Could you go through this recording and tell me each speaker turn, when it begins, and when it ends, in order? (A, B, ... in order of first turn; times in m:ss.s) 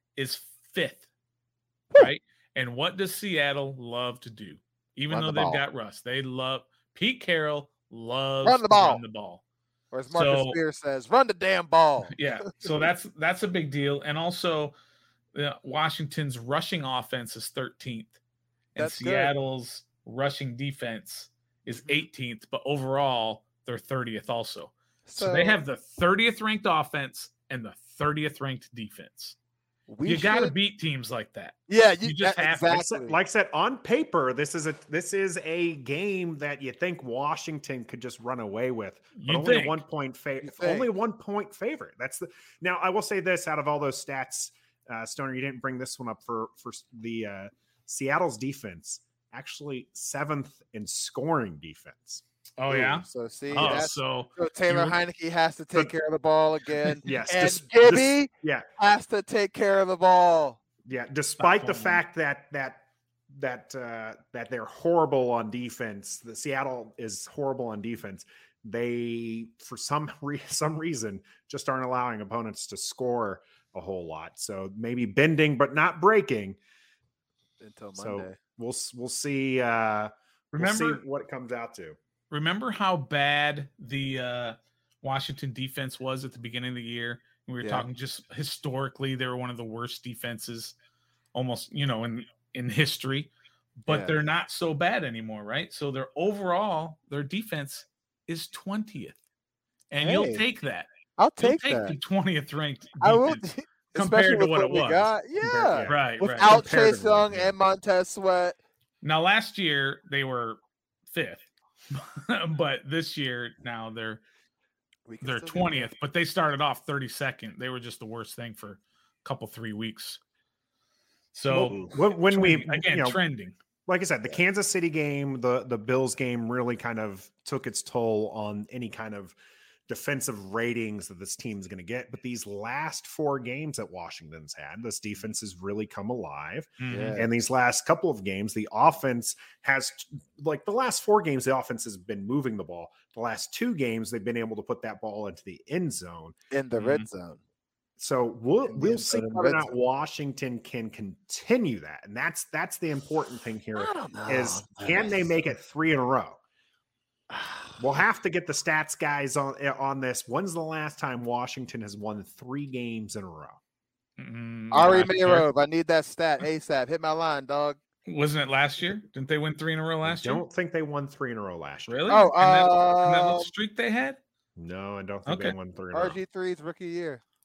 0:00.2-0:01.0 A
0:02.0-0:09.4 A
0:05.1-0:05.6 B
0:08.4-0:09.0 B
0:09.9-0:12.7 B
0:10.1-0:10.6 A
0:12.1-0:14.7 A
0:15.3-0:18.1 A
0:18.7-0:29.4 A
0:18.8-0:19.3 B
0:25.0-0:25.6 B
0:29.9-0:30.5 B
0:30.0-0:32.9 A
0:31.7-0:33.2 B
0:32.7-0:52.2 C
0:39.2-0:39.8 A
0:40.4-0:40.9 B
0:52.6-0:55.0 A
0:52.7-1:00.6 B
0:53.5-0:53.9 C
0:57.0-0:58.6 C
1:00.8-1:16.6 C
1:01.4-1:02.0 A
1:17.6-1:18.4 B
1:18.0-1:22.0 C
1:20.5-1:21.0 A
1:22.3-1:30.7 A
1:31.3-1:33.3 A
1:33.8-1:39.2 A
1:33.9-1:34.1 B
1:39.9-1:45.1 A
1:40.0-1:40.4 B
1:41.2-1:42.0 B
1:43.0-1:48.6 B
1:45.4-1:47.5 C
1:45.8-1:46.6 A
1:49.0-1:50.6 A
1:51.1-1:51.4 A
1:51.9-1:54.2 A
1:55.1-1:55.9 B
1:55.2-2:00.2 A
2:01.3-2:03.6 A
2:01.5-2:03.2 C
2:03.8-2:09.4 C
2:09.9-2:26.3 C
2:16.8-2:17.2 A
2:16.9-2:17.3 B
2:26.5-2:27.4 B
2:26.8-2:27.1 A
2:28.0-2:36.4 C
2:28.7-2:29.7 B
2:33.8-2:35.3 B
2:37.3-2:37.7 B
2:37.8-2:43.6 C
2:44.2-2:45.5 A
2:44.7-2:47.8 B
2:48.0-2:50.4 A
2:50.0-2:52.1 C
2:51.9-2:54.2 A
2:52.1-2:53.5 B
2:54.6-2:56.2 C
2:55.2-2:55.6 A
2:55.9-2:57.2 B